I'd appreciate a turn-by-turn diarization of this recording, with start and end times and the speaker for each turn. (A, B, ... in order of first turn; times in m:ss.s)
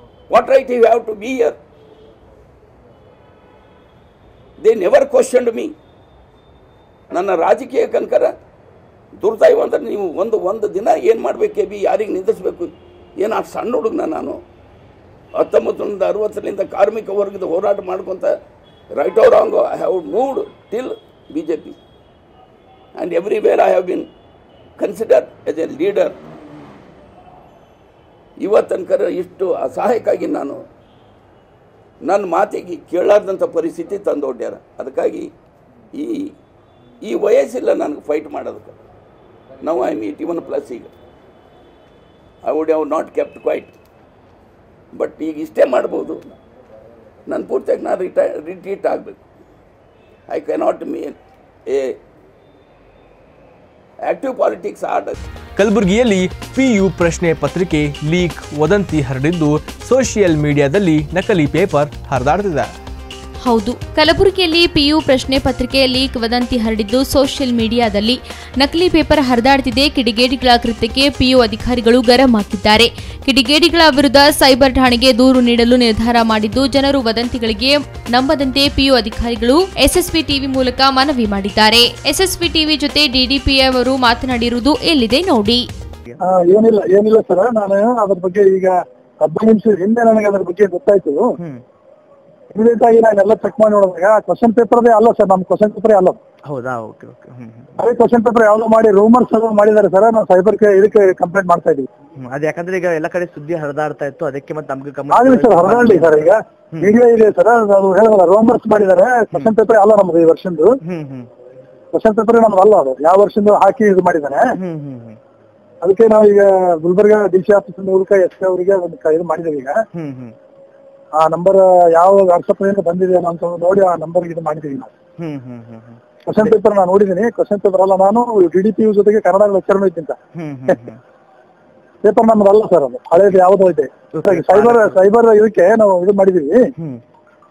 0:00.3-0:01.6 A
0:04.6-0:05.7 A
0:07.1-0:08.4 A
0:09.2-0:14.4 A
0:15.4-0:18.4 A
0:19.0-0:21.8 A
0:23.0-0:24.1 A
0:24.8-0:26.2 A
0:28.4-0:30.6 A
0:32.0-0:35.3 A
0:35.9-0:36.3 A
0:37.0-0:38.8 A
0:39.6-0:40.9 A
0:42.4-0:43.7 A
0:44.9-0:46.3 A
0:47.3-0:49.2 A
0:50.3-0:51.2 A
0:51.7-0:52.0 A
0:54.0-0:55.1 A
0:55.6-1:02.7 B
1:03.6-1:25.6 C
1:26.2-1:31.3 D
1:32.5-1:36.2 D
1:36.5-1:37.8 E
1:37.8-1:41.9 D
1:42.2-1:46.9 E
1:45.1-1:50.7 D
1:50.8-1:51.3 E
1:51.9-1:54.5 D
1:54.5-1:55.2 E
1:55.8-1:59.8 D
1:59.9-2:00.3 E
2:01.2-2:04.9 D
2:05.2-2:06.6 E
2:06.2-2:10.2 D
2:10.3-2:11.0 E
2:12.0-2:16.6 D
2:14.1-2:15.0 E